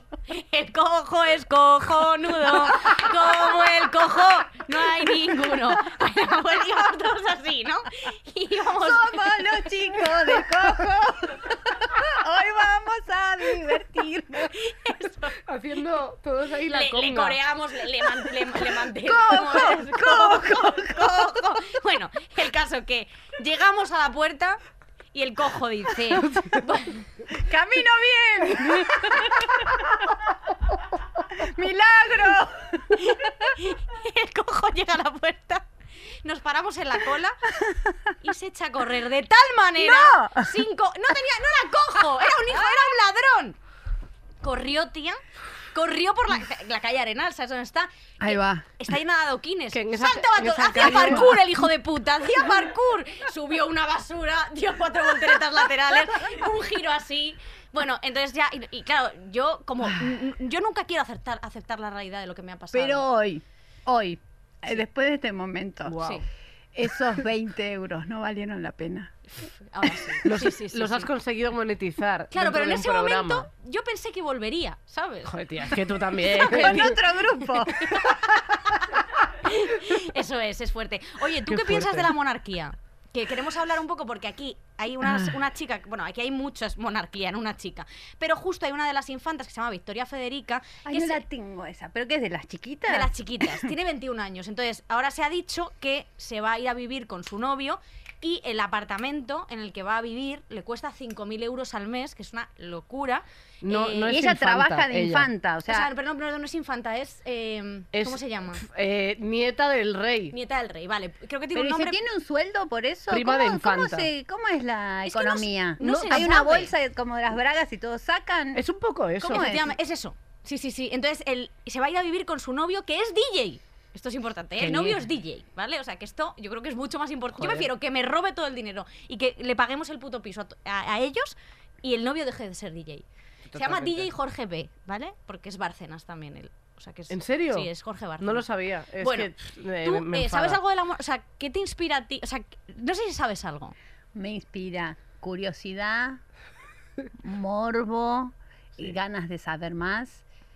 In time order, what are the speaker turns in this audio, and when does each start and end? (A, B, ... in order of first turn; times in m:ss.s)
0:00.3-0:09.3 A
0:05.2-0:05.5 B
0:08.7-0:14.6 B
0:14.7-0:15.4 A
0:15.5-0:17.4 C
0:16.7-0:24.6 A
0:19.1-0:21.3 B
0:25.1-0:27.0 A
0:27.3-0:30.3 B
0:31.3-0:33.2 B
0:33.0-0:35.7 A
0:36.2-0:37.4 A
0:37.7-0:37.9 B
0:38.2-0:43.6 A
0:39.8-0:40.5 B
0:44.4-0:45.2 A
0:45.7-1:03.0 A
0:48.2-0:48.7 B
0:49.7-0:51.3 C
0:50.8-0:51.3 B
1:02.7-1:06.0 B
1:05.8-1:06.2 C
1:06.8-1:09.1 B
1:09.4-1:11.1 A
1:10.2-1:13.5 C
1:12.3-1:15.4 A
1:15.2-1:17.0 C
1:16.2-1:17.0 A
1:16.4-1:18.1 B
1:17.8-1:18.1 A
1:19.4-1:31.2 A
1:21.4-1:22.1 C
1:30.8-1:33.7 B
1:32.9-1:44.1 A
1:43.6-1:45.3 C
1:44.1-1:45.9 B
1:45.7-1:48.6 A
1:47.9-1:50.4 C
1:50.3-1:52.0 A
1:51.6-1:58.6 B
1:53.1-1:54.1 C
1:55.0-1:56.7 A
1:55.8-1:56.3 C
1:58.6-1:59.6 C
1:59.2-2:18.5 A
1:59.2-1:59.7 B
2:04.6-2:05.0 C
2:07.3-2:07.7 C
2:13.5-2:14.1 C
2:17.1-2:17.7 C
2:18.2-2:20.6 C
2:19.0-2:23.8 A
2:24.2-2:26.2 B
2:27.2-2:30.2 B